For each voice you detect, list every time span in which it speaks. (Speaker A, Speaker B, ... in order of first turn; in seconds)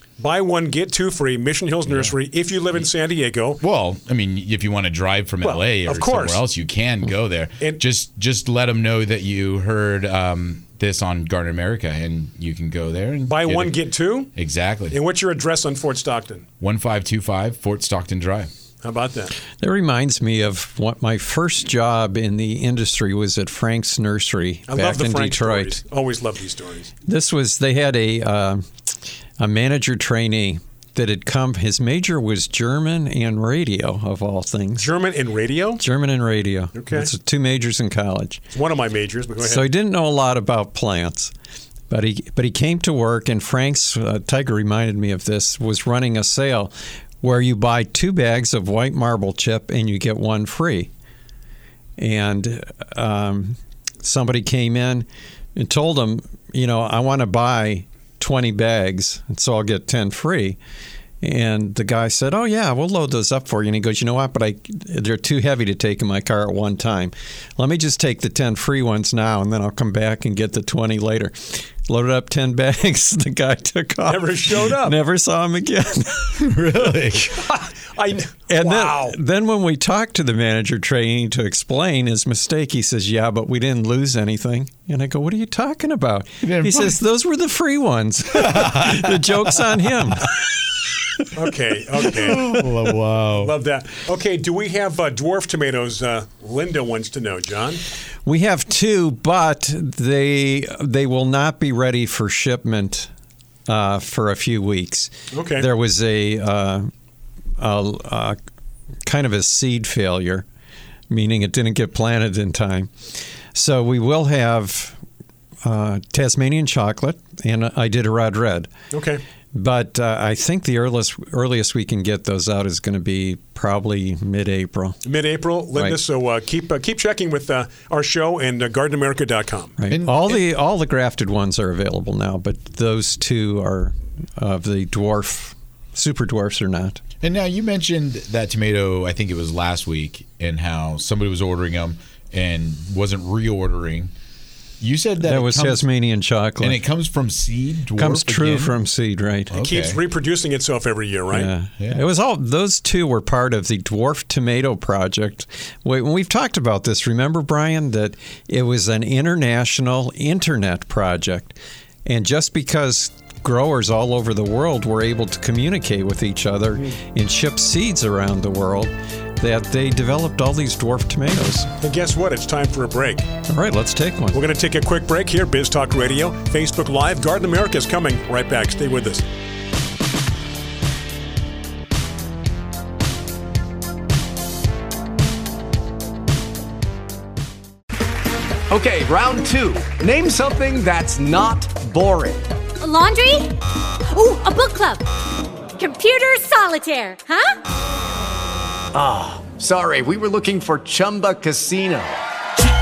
Speaker A: 0.2-3.6, 5.4-6.4, 13.3-14.3, 14.9-16.5, 18.8-19.3, 24.7-26.9, 34.8-35.8, 36.8-37.1, 38.5-39.7, 74.0-75.0, 77.4-79.2, 91.3-92.6, 93.4-97.8, 105.3-105.7, 118.9-119.2, 125.0-129.8, 149.6-151.5, 171.8-173.3, 174.3-179.2
Speaker B: 1.9-2.1, 3.6-13.8, 14.3-15.0, 16.6-18.5, 76.4-77.5, 86.4-87.0, 88.3-90.5, 92.1-93.5, 129.9-130.3, 137.2-144.1, 144.8-145.8, 146.6-148.8, 149.5-150.0, 151.8-152.1
Speaker C: 19.6-25.8, 27.1-28.7, 29.4-34.9, 35.8-38.4, 39.4-41.3, 41.9-50.9, 52.0-60.6, 61.2-76.5, 78.5-90.3, 98.2-103.1, 103.7-106.9, 107.6-108.4, 109.0-110.5, 111.1-112.9, 113.5-115.0, 115.6-118.7, 119.5-125.0, 129.8-137.0, 145.2-146.8, 148.0-149.5, 151.3-171.7, 173.5-174.4
Speaker D: 188.7-192.5, 198.9-202.2
Speaker E: 192.8-195.1, 195.8-197.6